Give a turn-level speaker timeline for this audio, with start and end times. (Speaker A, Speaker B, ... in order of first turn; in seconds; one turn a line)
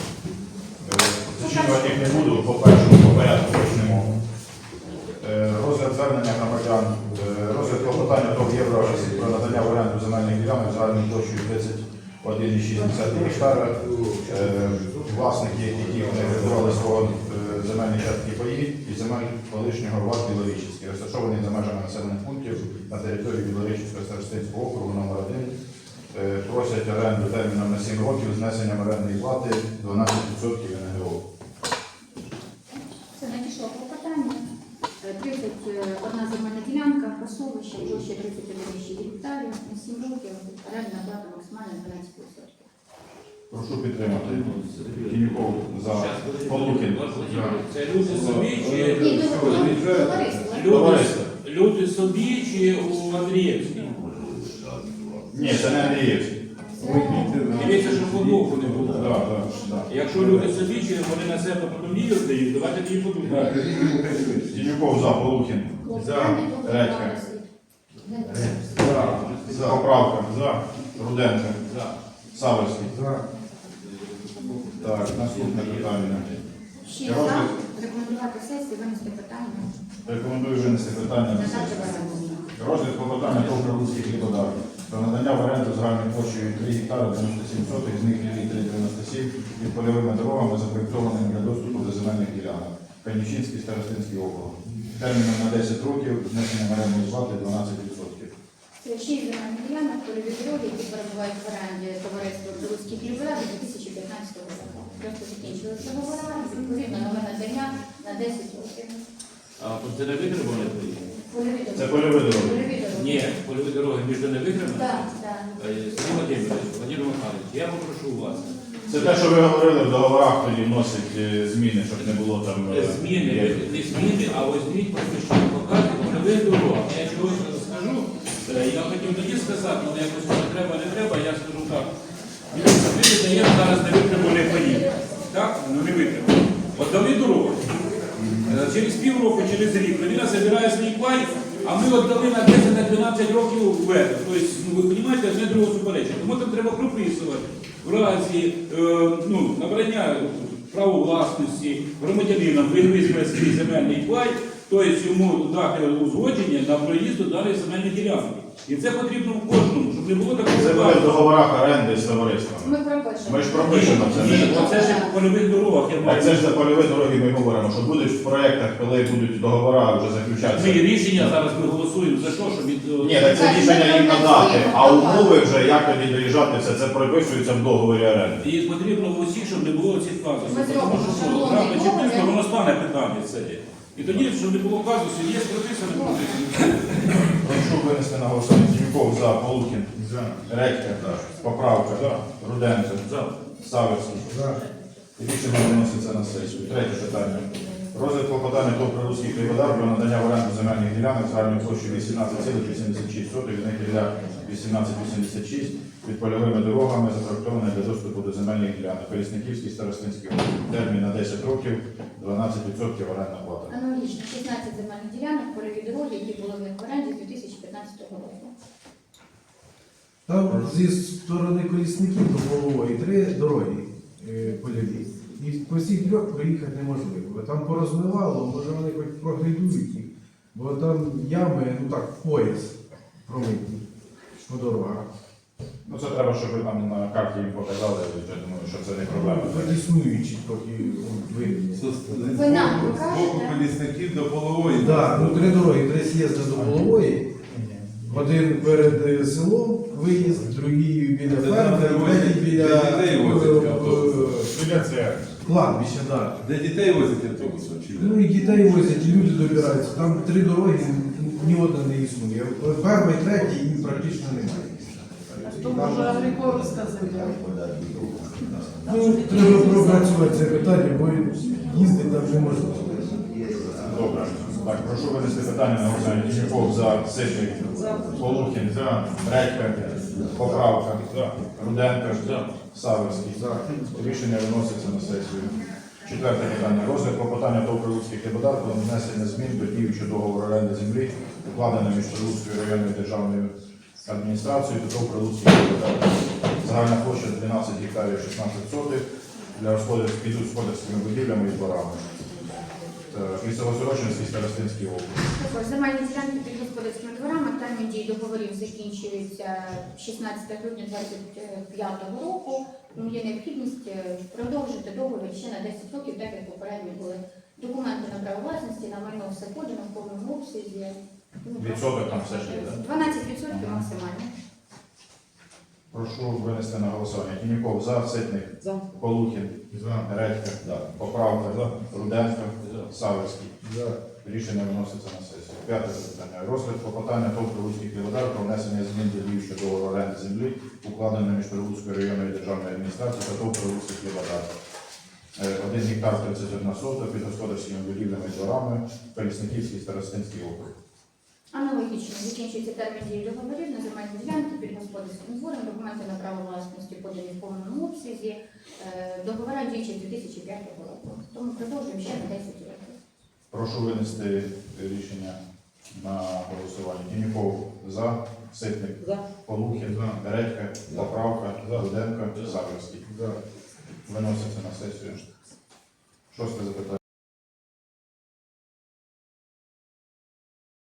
Speaker A: 0.8-4.1
Speaker B: 1.4-2.9
Speaker A: 5.2-25.5
Speaker A: 26.1-31.2
Speaker B: 33.1-34.4
Speaker B: 35.0-42.7
Speaker A: 43.5-47.1
Speaker C: 44.2-54.0
Speaker D: 48.0-50.5
Speaker B: 48.9-50.8
Speaker A: 50.6-51.3
Speaker A: 55.3-56.3
Speaker B: 55.3-56.1
Speaker B: 56.8-57.9
Speaker D: 56.8-58.9
Speaker C: 57.5-59.3
Speaker A: 58.9-59.8
Speaker C: 59.9-63.7
Speaker D: 63.4-64.5
Speaker B: 63.7-64.1
Speaker A: 64.5-65.8
Speaker B: 65.8-67.5
Speaker E: 65.9-66.4
Speaker A: 66.6-67.2
Speaker B: 68.1-68.9
Speaker C: 68.7-70.0
Speaker E: 68.8-69.2
Speaker A: 69.5-71.6
Speaker C: 71.6-72.0
Speaker A: 72.3-73.0
Speaker E: 72.9-73.2
Speaker C: 74.2-76.4
Speaker A: 74.8-76.3
Speaker B: 76.8-79.7
Speaker A: 77.0-77.5
Speaker A: 80.1-82.0
Speaker B: 81.3-82.5
Speaker A: 82.5-98.3
Speaker C: 83.4-83.9
Speaker B: 98.8-109.0
Speaker C: 109.6-111.1
Speaker B: 111.2-113.3
Speaker A: 111.8-112.7
Speaker C: 112.9-118.5
Speaker B: 114.7-116.1
Speaker A: 118.9-123.6
Speaker C: 122.7-131.9
Speaker C: 132.5-137.7
Speaker C: 138.4-161.2
Speaker A: 160.5-162.7
Speaker B: 162.6-165.2
Speaker A: 163.2-164.7
Speaker C: 163.7-166.5
Speaker A: 166.0-171.3
Speaker C: 170.5-173.4
Speaker A: 173.0-178.4
Speaker B: 173.3-175.5
Speaker C: 178.4-187.3
Speaker B: 180.5-182.3
Speaker B: 185.9-186.2
Speaker A: 187.3-193.0
Speaker C: 193.0-193.4
Speaker A: 193.6-194.6
Speaker E: 194.3-194.6
Speaker A: 195.2-213.7
Speaker B: 213.7-218.5
Speaker E: 220.2-232.7
Speaker E: 233.2-233.8
Speaker E: 234.4-235.1
Speaker A: 235.8-239.8
Speaker E: 239.0-242.8
Speaker D: 241.7-245.7
Speaker B: 242.3-243.6
Speaker E: 244.8-247.3
Speaker A: 247.5-248.2
Speaker E: 248.1-254.7
Speaker D: 251.3-254.5
Speaker A: 254.5-255.2
Speaker E: 255.4-256.4
Speaker D: 256.4-258.2
Speaker E: 258.0-264.8
Speaker E: 265.5-266.2
Speaker F: 265.5-267.3
Speaker E: 268.9-273.0
Speaker F: 269.6-270.0
Speaker A: 273.8-285.5
Speaker C: 282.2-282.5
Speaker A: 286.1-293.5
Speaker A: 294.1-302.1
Speaker A: 303.1-305.2
Speaker B: 305.3-324.3
Speaker A: 321.6-322.8
Speaker A: 323.5-323.9
Speaker A: 325.9-333.5
Speaker E: 333.6-334.0
Speaker A: 334.2-344.5
Speaker A: 345.4-350.7
Speaker B: 351.5-363.0
Speaker A: 363.5-365.4
Speaker A: 365.9-373.0
Speaker E: 373.1-373.4
Speaker A: 374.1-375.2
Speaker A: 376.3-377.0